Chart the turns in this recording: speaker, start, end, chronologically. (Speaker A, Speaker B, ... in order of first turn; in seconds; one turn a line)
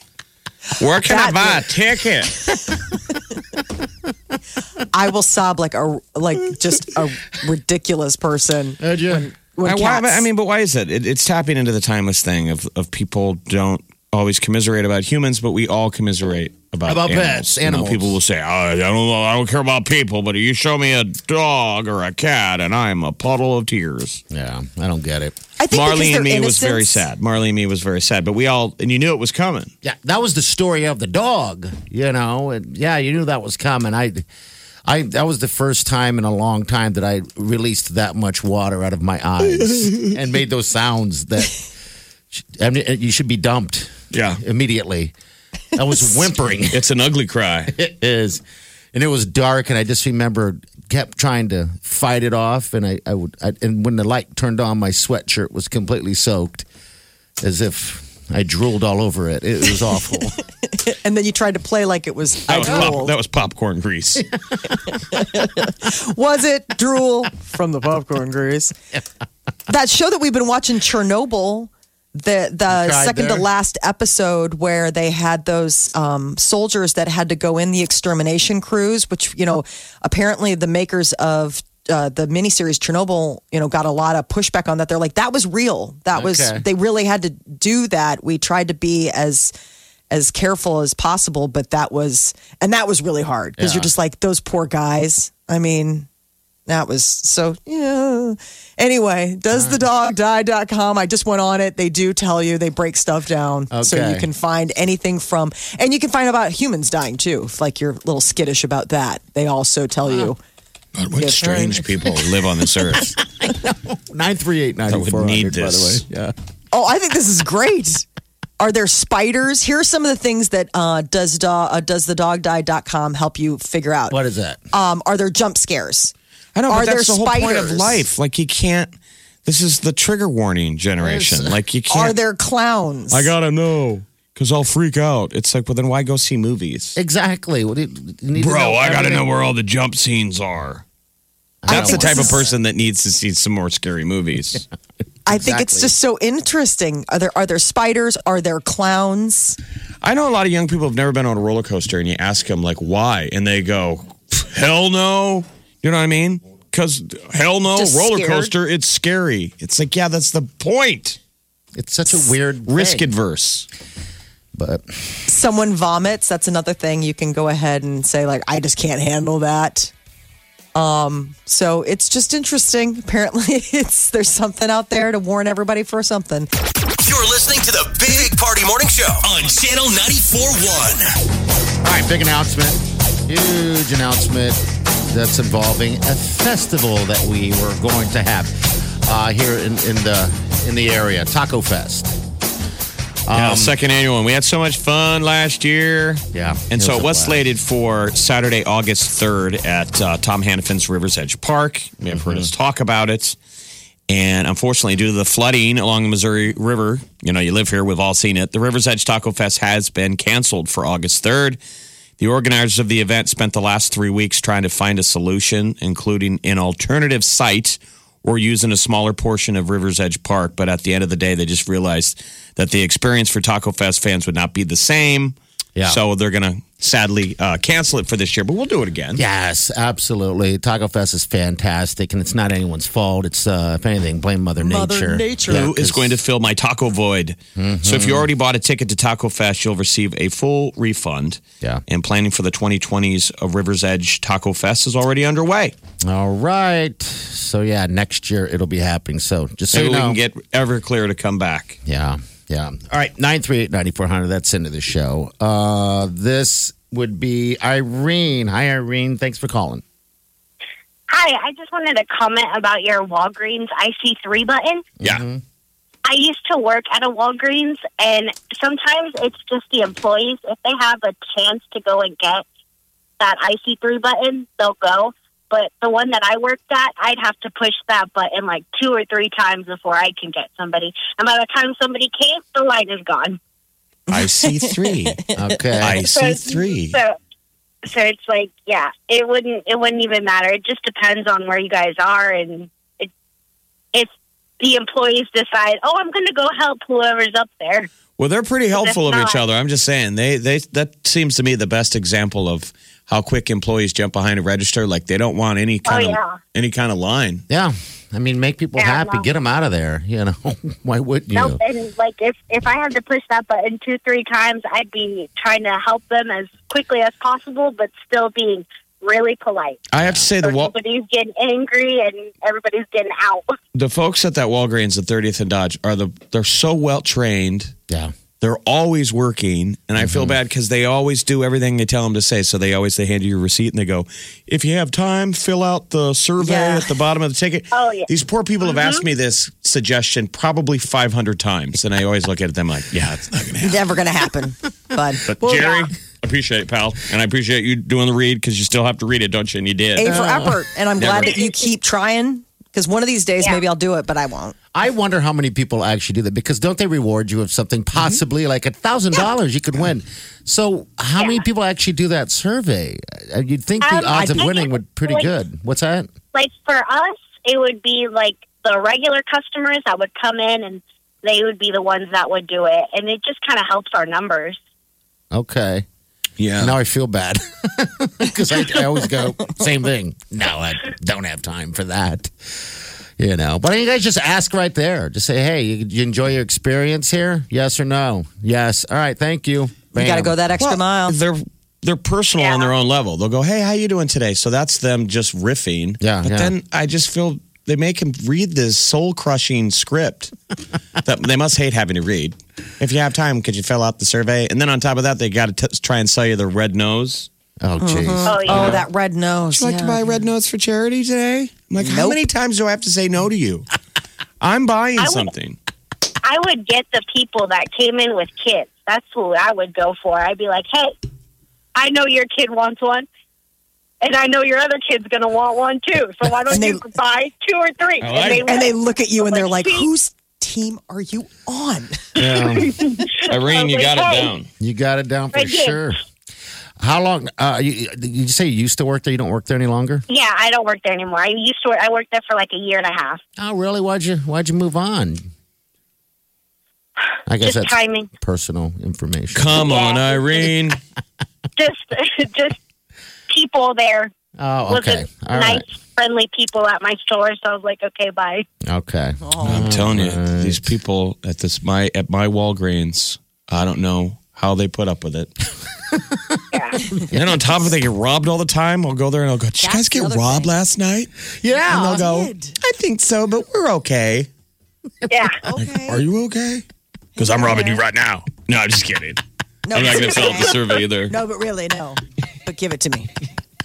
Speaker A: 0.8-2.6
Speaker B: 1.0-1.7
Speaker B: 4.9-10.2
Speaker C: 8.8-9.2
Speaker A: 9.6-24.2
Speaker C: 16.9-18.2
Speaker C: 24.3-25.4
Speaker B: 25.6-27.0
Speaker A: 25.7-29.7
Speaker C: 29.8-34.3
Speaker C: 34.9-41.6
Speaker A: 39.6-40.1
Speaker C: 42.3-45.1
Speaker A: 44.1-44.4
Speaker C: 45.7-46.9
Speaker A: 46.7-47.7
Speaker C: 47.7-48.4
Speaker C: 48.9-56.7
Speaker C: 57.4-60.4
Speaker B: 60.7-63.1
Speaker A: 62.5-64.2
Speaker C: 62.6-62.9
Speaker B: 65.1-68.7
Speaker B: 69.7-89.5
Speaker C: 72.7-73.5
Speaker C: 86.1-86.6
Speaker B: 90.1-96.1
Speaker C: 93.6-93.9
Speaker B: 96.7-110.4
Speaker C: 99.5-99.8
Speaker C: 103.7-104.3
Speaker A: 111.0-113.2
Speaker B: 111.1-111.8
Speaker C: 112.9-116.3
Speaker A: 114.9-116.0
Speaker B: 116.7-118.0
Speaker B: 118.6-124.2
Speaker C: 124.1-124.6
Speaker B: 124.7-126.1
Speaker A: 126.5-128.9
Speaker B: 126.7-128.0
Speaker A: 129.4-132.2
Speaker C: 131.0-131.6
Speaker B: 131.9-133.3
Speaker A: 133.1-137.0
Speaker C: 136.9-139.2
Speaker A: 138.4-140.8
Speaker C: 141.6-142.4
Speaker B: 141.7-142.4
Speaker A: 141.7-144.7
Speaker B: 145.2-149.6
Speaker C: 145.3-145.9
Speaker A: 150.0-161.2
Speaker B: 157.7-158.5
Speaker C: 161.8-163.1
Speaker A: 162.7-163.7
Speaker C: 164.6-164.8
Speaker B: 165.3-169.9
Speaker B: 170.7-176.5
Speaker D: 177.0-181.1
Speaker C: 181.8-192.2
Speaker C: 193.3-193.7
Speaker A: 193.3-203.4
Speaker C: 196.3-197.4
Speaker C: 202.1-202.5
Speaker A: 204.1-211.6
Speaker A: 212.2-229.2
Speaker C: 225.8-226.0
Speaker C: 229.2-236.2
Speaker B: 234.6-235.7
Speaker A: 235.5-245.7
Speaker C: 237.6-238.3
Speaker C: 246.0-250.2
Speaker A: 249.7-251.8
Speaker C: 251.8-259.8
Speaker E: 261.1-264.9
Speaker C: 265.0-265.4
Speaker E: 266.1-272.4
Speaker E: 273.2-283.4
Speaker B: 284.1-285.3
Speaker A: 284.1-285.2
Speaker C: 285.3-286.0
Speaker A: 285.8-287.0
Speaker E: 286.1-287.2
Speaker E: 287.8-293.1
Speaker E: 293.9-297.9
Speaker A: 298.2-307.4
Speaker E: 298.7-299.4
Speaker E: 305.9-306.4
Speaker C: 307.5-311.6
Speaker E: 308.8-309.2
Speaker E: 311.3-319.8
Speaker A: 319.9-320.7
Speaker C: 320.0-320.3
Speaker E: 320.4-323.5
Speaker A: 323.7-327.7
Speaker A: 328.4-343.9
Speaker C: 330.0-330.4
Speaker B: 336.4-336.9
Speaker E: 337.7-338.1
Speaker E: 338.6-339.0
Speaker B: 343.6-345.3
Speaker A: 345.2-350.2
Speaker E: 345.6-345.9
Speaker B: 349.9-354.5
Speaker C: 350.0-350.6
Speaker A: 351.0-351.4
Speaker C: 354.7-366.1
Speaker E: 361.2-361.4
Speaker E: 363.8-365.3
Speaker B: 364.1-364.5
Speaker E: 366.3-374.6
Speaker C: 375.3-375.9
Speaker A: 376.4-376.7
Speaker C: 376.6-390.4
Speaker B: 389.9-391.1
Speaker A: 390.6-400.3
Speaker E: 392.4-392.7
Speaker C: 396.0-396.5
Speaker A: 401.0-407.3
Speaker C: 407.6-408.8
Speaker B: 407.8-410.0
Speaker E: 408.2-408.8
Speaker A: 409.5-413.7
Speaker B: 411.8-412.2
Speaker A: 414.4-415.6
Speaker E: 415.0-415.3
Speaker E: 416.2-420.9
Speaker E: 421.8-423.1
Speaker E: 424.0-429.9
Speaker B: 426.5-426.8
Speaker A: 428.0-428.5
Speaker B: 428.4-432.2
Speaker C: 432.1-432.8
Speaker E: 432.2-434.3
Speaker A: 433.2-434.5
Speaker C: 434.6-436.0
Speaker E: 435.3-435.8
Speaker C: 436.8-440.0
Speaker E: 440.1-443.2
Speaker C: 443.4-445.2
Speaker C: 447.3-449.7
Speaker E: 447.4-448.1
Speaker A: 449.3-450.8
Speaker E: 449.6-450.5
Speaker E: 451.6-452.6
Speaker E: 453.3-454.1
Speaker C: 454.4-455.6
Speaker E: 454.7-458.4
Speaker C: 458.6-460.7
Speaker B: 459.2-459.7
Speaker A: 459.4-465.3
Speaker C: 465.9-467.4
Speaker E: 466.5-466.8
Speaker A: 467.1-471.1
Speaker B: 469.6-470.5
Speaker C: 471.4-472.0
Speaker B: 471.7-472.6
Speaker A: 471.7-474.3
Speaker E: 475.1-475.4
Speaker B: 475.4-476.0
Speaker A: 475.6-476.6
Speaker B: 477.2-477.8
Speaker A: 477.2-481.1
Speaker B: 479.6-483.1